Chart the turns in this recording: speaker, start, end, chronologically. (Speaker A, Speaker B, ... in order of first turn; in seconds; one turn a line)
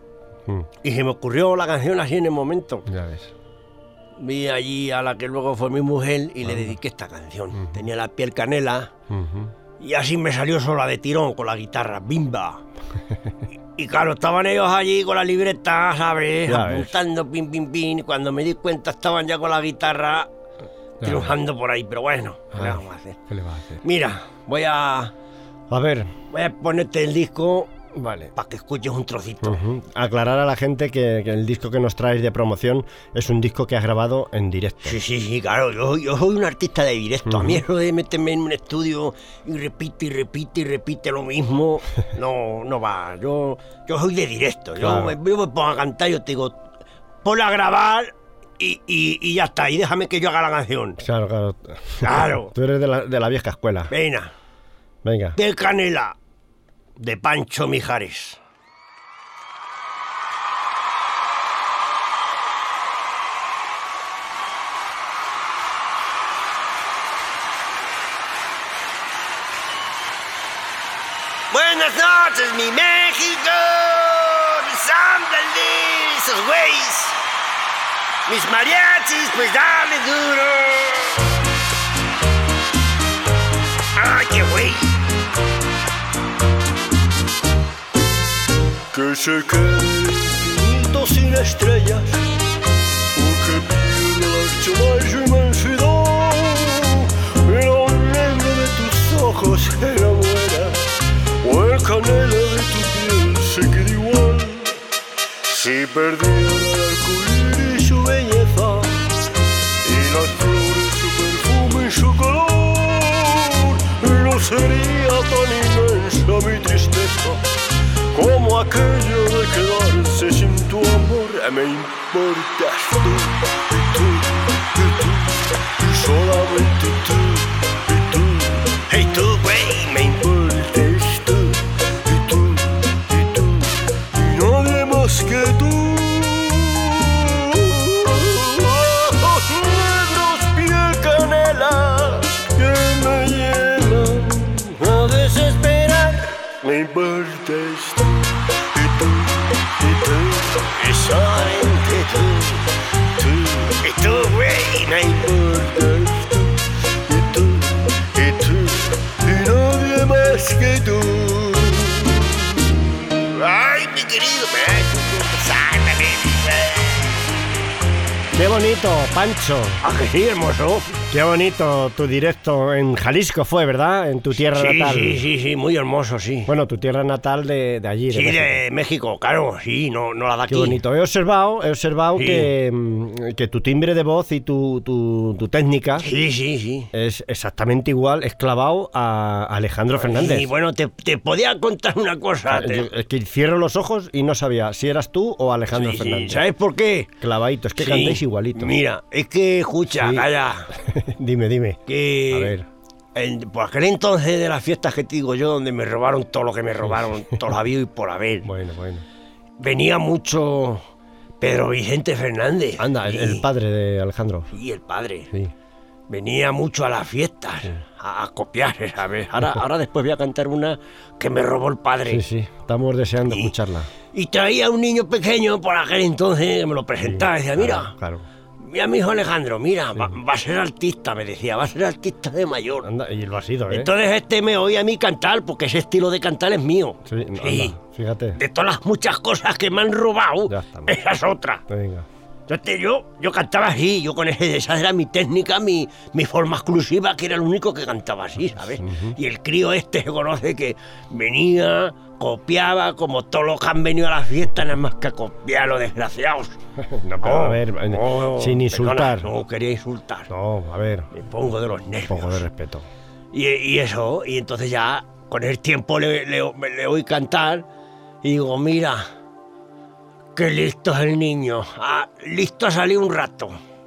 Speaker A: 0.8-2.9
Speaker B: 2.9-3.3
Speaker A: 4.2-8.9
Speaker B: 6.5-6.7
Speaker B: 9.1-9.5
Speaker A: 9.8-12.6
Speaker A: 13.7-20.3
Speaker B: 16.4-17.0
Speaker B: 21.0-21.3
Speaker A: 21.0-23.3
Speaker B: 22.6-23.8
Speaker A: 23.8-25.1
Speaker B: 25.7-26.1
Speaker A: 26.3-27.8
Speaker B: 27.9-28.3
Speaker A: 28.3-29.6
Speaker B: 29.4-35.0
Speaker A: 34.8-46.6
Speaker B: 37.2-37.6
Speaker B: 44.8-45.1
Speaker A: 47.2-51.0
Speaker B: 51.0-53.9
Speaker A: 52.0-52.5
Speaker A: 53.9-54.3
Speaker B: 55.0-55.4
Speaker A: 55.4-56.1
Speaker A: 57.0-58.4
Speaker A: 71.5-77.2
Speaker A: 78.3-81.3
Speaker A: 83.9-85.0
Speaker C: 88.9-92.2
Speaker C: 93.1-100.9
Speaker C: 101.4-104.8
Speaker C: 105.5-109.2
Speaker C: 109.8-117.4
Speaker C: 118.1-128.8
Speaker A: 128.9-130.2
Speaker C: 130.0-150.8
Speaker A: 150.7-152.6
Speaker C: 153.1-153.8
Speaker A: 153.8-155.2
Speaker C: 155.0-163.0
Speaker A: 163.3-167.2
Speaker B: 168.3-169.8
Speaker A: 169.8-171.0
Speaker B: 171.1-175.2
Speaker A: 174.3-176.5
Speaker B: 176.4-178.6
Speaker A: 178.1-180.8
Speaker B: 180.5-186.1
Speaker A: 182.2-182.5
Speaker A: 186.0-186.9
Speaker B: 186.9-190.5
Speaker A: 190.0-192.9
Speaker B: 192.5-196.4
Speaker A: 195.7-197.1
Speaker B: 197.2-198.8
Speaker A: 197.8-200.7
Speaker B: 199.9-202.7
Speaker A: 201.9-202.6
Speaker A: 203.1-208.5
Speaker B: 208.4-209.1
Speaker A: 209.6-210.8
Speaker A: 211.4-213.5
Speaker B: 212.8-214.5
Speaker A: 214.5-215.3
Speaker A: 216.1-222.2
Speaker B: 222.1-223.9
Speaker A: 223.2-223.5
Speaker A: 224.1-227.9
Speaker B: 227.0-228.2
Speaker A: 228.6-232.9
Speaker B: 232.8-233.9
Speaker A: 233.7-237.8
Speaker B: 237.1-238.4
Speaker A: 238.3-241.6
Speaker B: 240.5-241.0
Speaker B: 241.7-242.1
Speaker A: 242.5-260.3
Speaker B: 248.5-249.2
Speaker B: 257.2-259.3
Speaker B: 260.3-261.1
Speaker A: 261.1-262.4
Speaker B: 262.1-262.9
Speaker A: 263.3-267.7
Speaker A: 268.2-269.1
Speaker A: 270.3-273.6